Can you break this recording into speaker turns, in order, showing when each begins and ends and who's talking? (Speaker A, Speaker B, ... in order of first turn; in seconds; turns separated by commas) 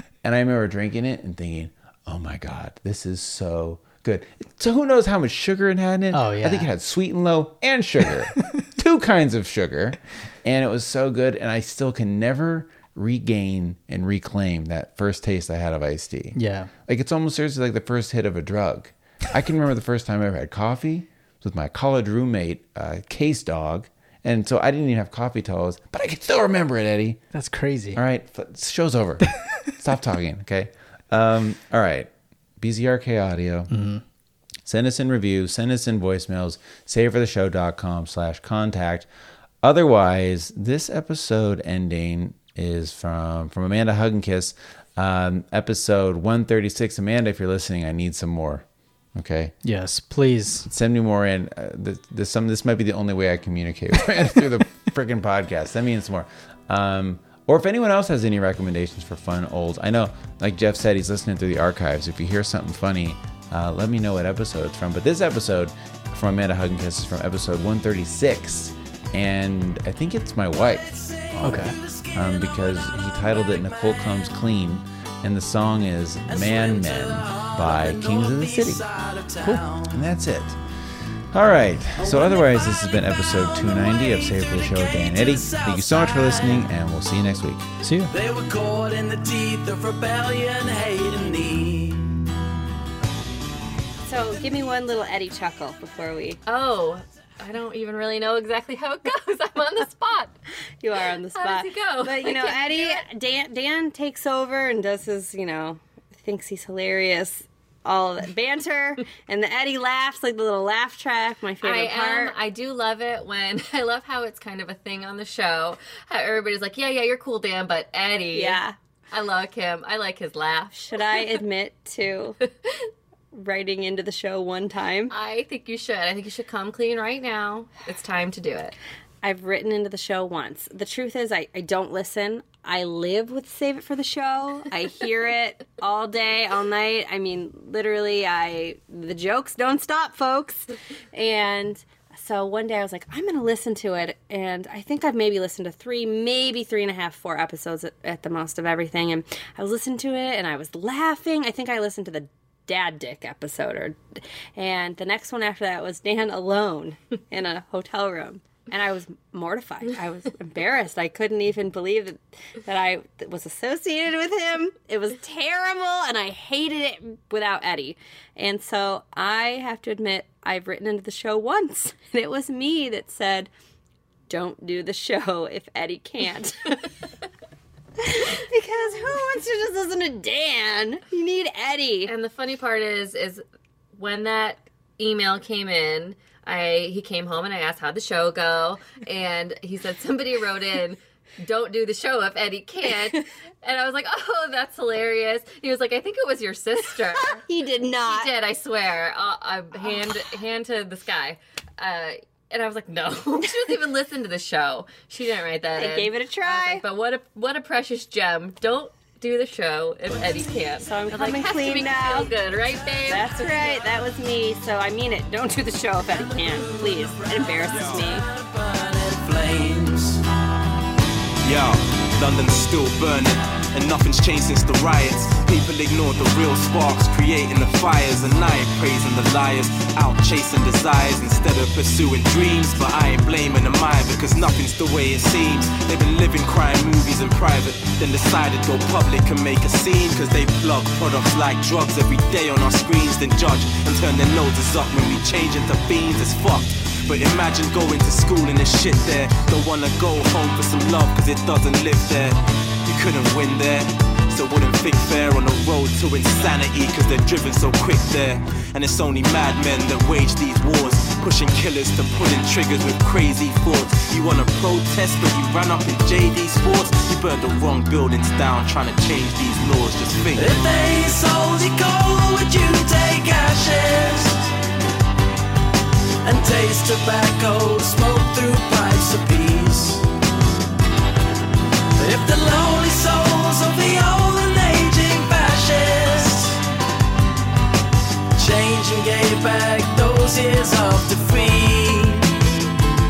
Speaker A: 0.2-16.4, Speaker B: 6.1-6.7, Speaker B: 16.3-16.7, Speaker A: 16.9-27.2, Speaker B: 27.3-28.0, Speaker A: 27.9-32.1, Speaker A: 32.6-33.7, Speaker B: 33.7-34.0, Speaker A: 34.6-39.1, Speaker A: 39.6-49.5, Speaker B: 49.6-50.7, Speaker A: 50.6-78.8, Speaker C: 70.5-74.2, Speaker B: 71.4-71.8, Speaker C: 76.3-80.0, Speaker A: 79.9-80.6, Speaker A: 81.3-87.7, Speaker C: 82.0-86.7, Speaker B: 87.8-88.1, Speaker C: 88.1-92.2, Speaker D: 94.0-96.4, Speaker E: 96.5-100.3, Speaker D: 100.8-112.4, Speaker E: 101.3-103.0, Speaker E: 111.6-118.6, Speaker D: 118.3-118.7, Speaker E: 119.1-121.4, Speaker D: 120.9-122.4, Speaker D: 123.3-125.1, Speaker E: 125.1-128.7, Speaker D: 129.2-173.5, Speaker D: 174.3-176.8, Speaker D: 178.0-182.1, Speaker E: 182.1-197.4, Speaker D: 197.2-198.3, Speaker E: 198.1-213.8, Speaker D: 205.8-206.8, Speaker D: 210.8-212.3, Speaker D: 213.1-218.2, Speaker C: 216.0-220.2, Speaker F: 221.4-270.5, Speaker C: 270.3-274.5, Speaker C: 276.2-280.1, Speaker C: 282.0-286.6, Speaker C: 288.4-292.3